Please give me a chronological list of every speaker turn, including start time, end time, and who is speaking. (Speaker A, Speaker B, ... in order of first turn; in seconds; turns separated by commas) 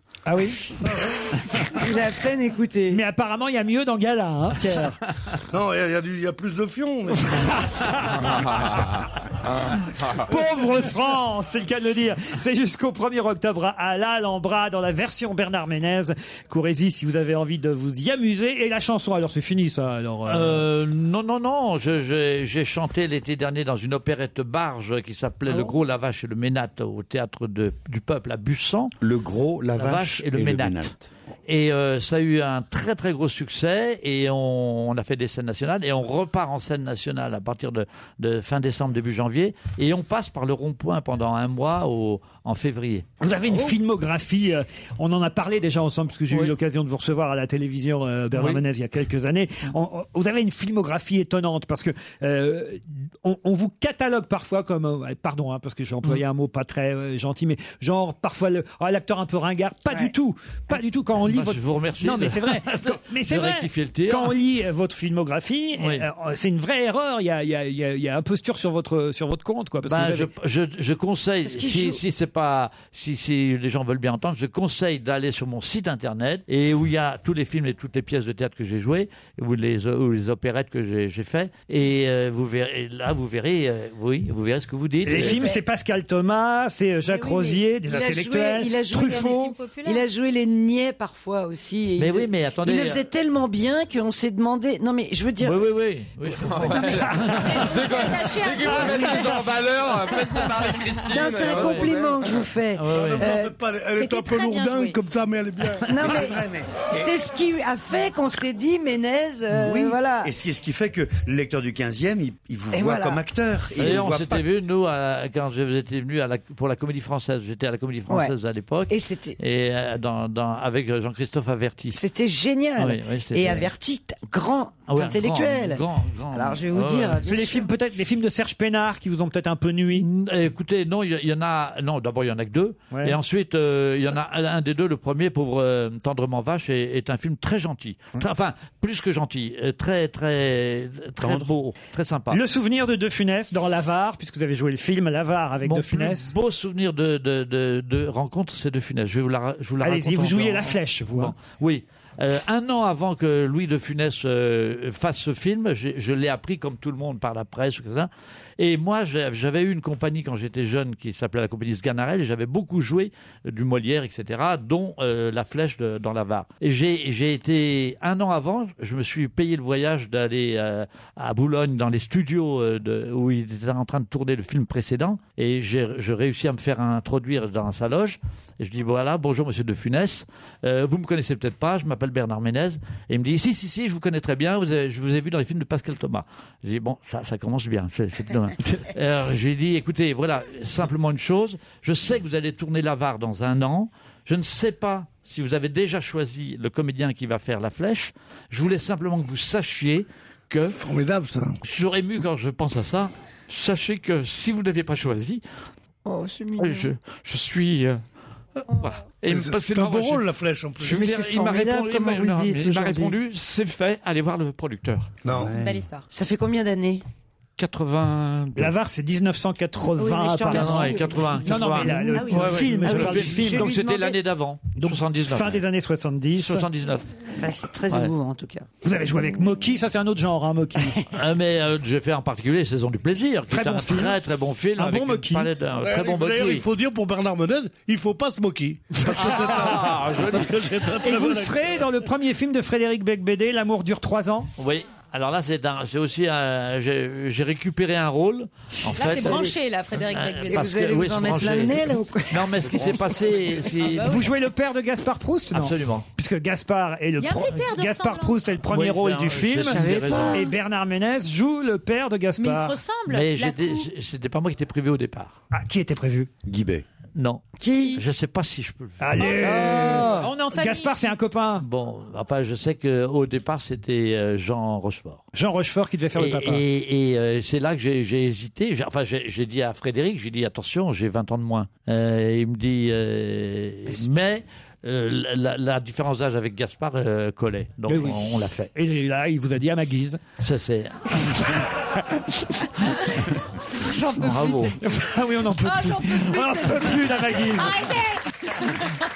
Speaker A: 0.2-0.8, Speaker A: 1.4-1.8, Speaker B: 1.7-3.0, Speaker A: 2.9-5.0, Speaker B: 4.5-4.9, Speaker C: 5.5-7.4, Speaker A: 7.2-8.4, Speaker A: 10.2-20.6, Speaker D: 20.3-28.9, Speaker E: 29.0-31.1, Speaker D: 29.8-30.9, Speaker D: 31.5-43.1, Speaker A: 43.2-70.3, Speaker D: 46.3-46.5, Speaker D: 48.3-48.6, Speaker B: 59.9-60.1, Speaker D: 61.2-64.3, Speaker D: 65.8-66.0, Speaker D: 69.8-85.5, Speaker B: 71.4-72.0, Speaker A: 85.0-89.5, Speaker B: 85.1-85.6, Speaker B: 87.0-95.7, Speaker F: 89.0-90.0, Speaker D: 92.0-93.0, Speaker D: 95.4-97.7, Speaker G: 96.3-102.4, Speaker B: 96.4-97.3, Speaker F: 97.4-100.5, Speaker A: 98.7-99.2, Speaker B: 101.0-103.5, Speaker D: 101.5-101.9, Speaker D: 102.8-103.2, Speaker C: 102.9-106.1, Speaker F: 104.0-105.0, Speaker B: 105.8-110.3, Speaker E: 106.1-106.9, Speaker E: 109.5-114.5, Speaker B: 112.7-114.1, Speaker D: 113.8-122.0, Speaker B: 118.1-118.3, Speaker B: 118.9-119.4, Speaker B: 121.9-127.7, Speaker D: 122.8-123.7, Speaker D: 124.9-127.2, Speaker A: 127.2-130.1, Speaker D: 129.9-142.4, Speaker A: 132.9-133.2, Speaker B: 141.2-141.5, Speaker A: 142.3-146.3, Speaker D: 145.6-200.8, Speaker A: 149.8-151.3, Speaker C: 200.7-201.6, Speaker D: 201.6-205.4, Speaker B: 206.0-206.9, Speaker D: 206.6-208.0, Speaker D: 208.6-210.2, Speaker C: 209.3-211.1, Speaker B: 210.8-213.2, Speaker D: 210.8-215.1, Speaker C: 215.2-215.6, Speaker E: 215.3-215.7, Speaker F: 215.5-216.1, Speaker B: 216.1-217.0, Speaker D: 217.6-218.7, Speaker A: 218.6-223.8, Speaker B: 219.9-224.2, Speaker D: 220.5-225.6, Speaker A: 224.8-226.7, Speaker D: 226.3-227.1, Speaker B: 227.3-228.7, Speaker A: 228.8-231.0, Speaker B: 230.8-231.1, Speaker D: 231.2-236.7, Speaker A: 233.5-234.2, Speaker A: 234.8-235.5, Speaker C: 235.8-241.8, Speaker A: 239.1-239.8, Speaker D: 239.1-241.1, Speaker A: 241.0-244.5, Speaker D: 244.6-249.5, Speaker F: 248.9-250.6, Speaker B: 249.2-249.5, Speaker D: 250.1-254.1, Speaker B: 250.4-253.2, Speaker F: 253.8-254.3, Speaker A: 254.0-262.8, Speaker D: 255.5-256.1, Speaker F: 257.2-258.4, Speaker D: 258.7-260.4, Speaker B: 259.7-260.5, Speaker F: 262.4-263.9, Speaker D: 263.1-265.3, Speaker A: 265.5-266.3, Speaker E: 266.4-266.8, Speaker D: 267.1-269.3, Speaker B: 267.5-268.0, Speaker A: 269.0-271.6, Speaker F: 269.2-271.1, Speaker B: 269.3-270.3, Speaker D: 271.6-275.2, Speaker A: 275.3-276.6, Speaker D: 276.1-288.7, Speaker A: 287.9-290.2, Speaker D: 290.4-291.8, Speaker D: 292.8-294.8, Speaker F: 294.4-294.7, Speaker A: 294.8-297.9, Speaker F: 295.5-298.7